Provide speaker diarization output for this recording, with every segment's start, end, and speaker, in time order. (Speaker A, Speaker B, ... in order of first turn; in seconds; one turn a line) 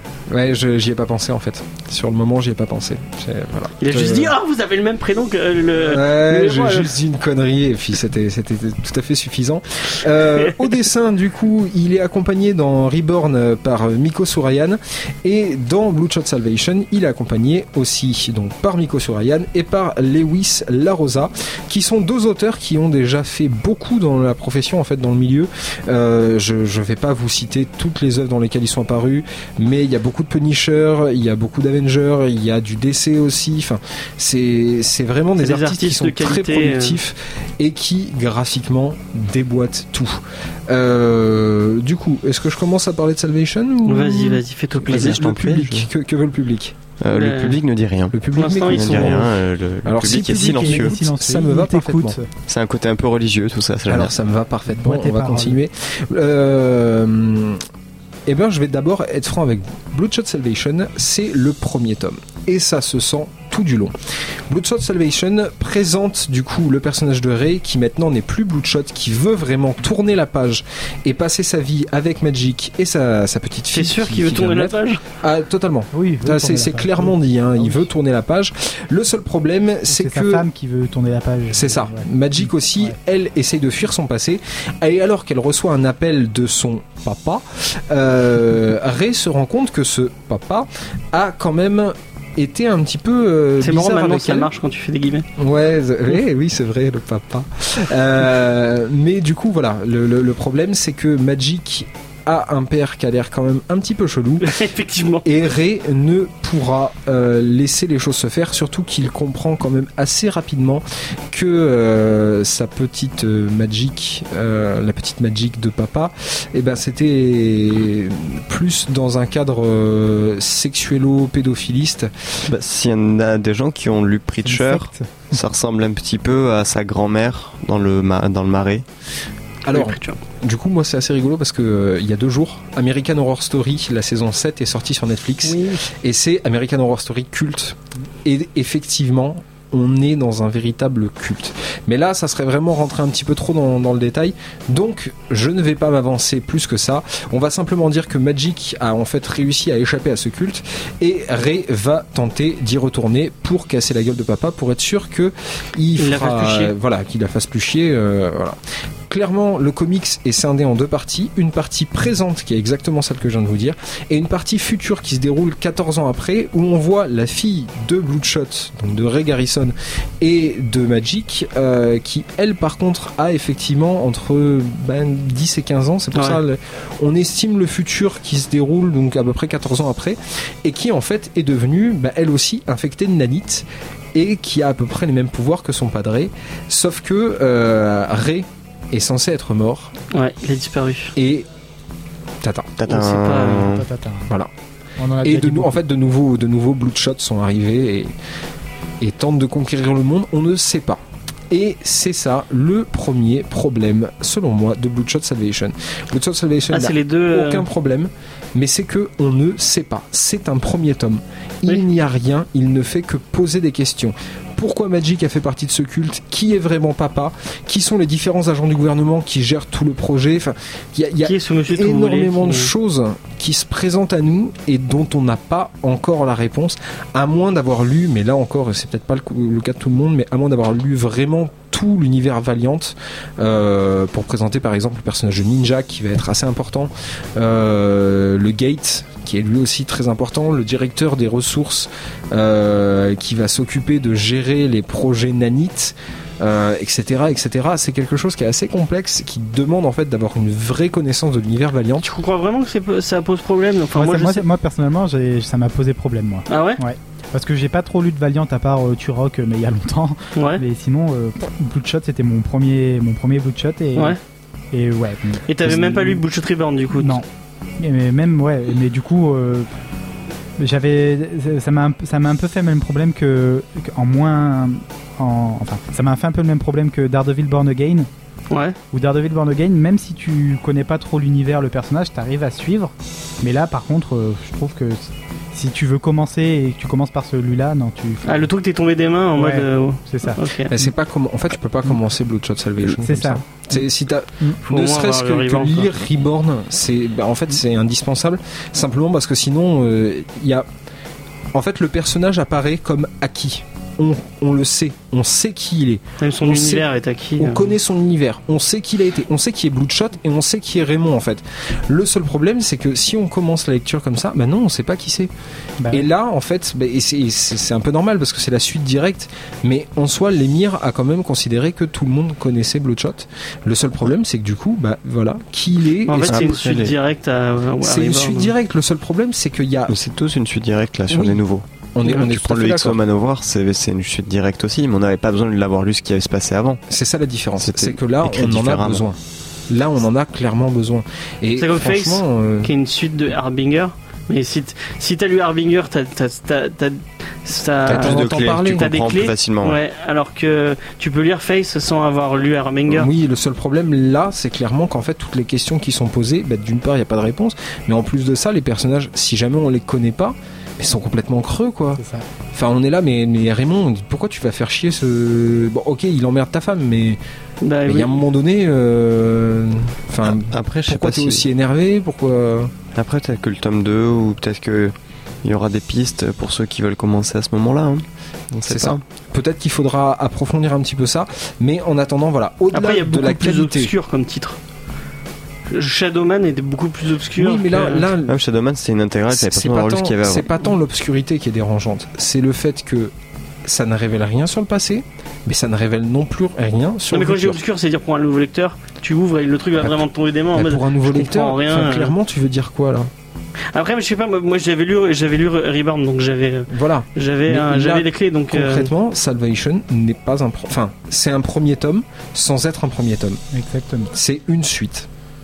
Speaker A: 0.3-4.3
Speaker B: 3.8-6.9
Speaker A: 5.8-46.8
Speaker B: 35.4-37.0
Speaker B: 43.9-45.2
Speaker C: 44.9-45.9
Speaker C: 47.0-51.0
Speaker B: 47.1-47.6
Speaker A: 48.1-49.3
Speaker B: 48.3-49.2
Speaker A: 49.8-52.2
Speaker D: 50.0-52.3
Speaker C: 52.5-54.1
Speaker A: 53.9-57.6
Speaker D: 54.7-55.6
Speaker A: 58.3-63.9
Speaker A: 64.5-80.5
Speaker B: 73.7-75.0
Speaker D: 75.9-77.8
Speaker D: 79.9-82.1
Speaker A: 81.5-94.5
Speaker B: 93.6-95.2
Speaker A: 95.4-104.6
Speaker B: 104.4-105.2
Speaker A: 105.2-122.1
Speaker C: 122.5-128.8
Speaker D: 124.4-125.1
Speaker A: 129.7-158.6
Speaker B: 129.7-130.2
Speaker B: 135.4-135.8
Speaker B: 156.0-156.7
Speaker A: 159.1-189.9
Speaker B: 176.1-176.4
Speaker B: 190.1-191.1
Speaker A: 191.2-191.4
Speaker A: 192.4-192.7
Speaker C: 192.8-193.9
Speaker B: 192.9-193.7
Speaker D: 193.7-194.3
Speaker D: 195.0-195.8
Speaker A: 195.2-198.1
Speaker A: 199.0-252.1
Speaker B: 206.7-207.7
Speaker B: 221.2-222.7
Speaker B: 252.0-254.4
Speaker D: 253.9-264.2
Speaker B: 256.5-256.8
Speaker B: 260.3-260.6
Speaker D: 264.7-266.0
Speaker B: 265.5-267.2
Speaker D: 267.0-267.2
Speaker D: 267.8-269.7
Speaker D: 270.6-278.1
Speaker B: 278.5-278.8
Speaker D: 278.9-288.4
Speaker B: 288.2-290.7
Speaker D: 289.4-290.9
Speaker A: 290.7-300.6
Speaker D: 292.8-293.8
Speaker B: 294.6-295.9
Speaker A: 301.5-306.9
Speaker B: 306.2-307.7
Speaker A: 307.4-315.3
Speaker D: 315.8-316.1
Speaker A: 315.9-326.9
Speaker B: 326.1-328.5
Speaker C: 326.3-326.7
Speaker A: 327.8-329.9
Speaker C: 329.9-336.8
Speaker A: 331.1-331.4
Speaker A: 331.9-333.0
Speaker A: 336.9-339.2
Speaker C: 337.6-339.0
Speaker A: 339.7-342.7
Speaker B: 341.6-353.1
Speaker A: 347.9-348.9
Speaker C: 347.9-349.8
Speaker A: 352.9-362.0
Speaker D: 362.0-362.2
Speaker A: 362.5-367.2
Speaker B: 367.6-368.2
Speaker A: 367.9-372.7
Speaker C: 370.2-371.5
Speaker C: 372.9-374.9
Speaker C: 375.4-379.0
Speaker A: 378.7-383.9
Speaker B: 382.7-384.6
Speaker B: 385.7-388.1
Speaker A: 387.4-388.4
Speaker C: 388.2-390.5
Speaker A: 389.3-393.1
Speaker A: 393.6-397.6
Speaker B: 397.1-402.1
Speaker A: 399.8-403.1
Speaker B: 403.7-408.9
Speaker A: 406.7-413.4
Speaker D: 413.5-414.1
Speaker A: 414.1-415.1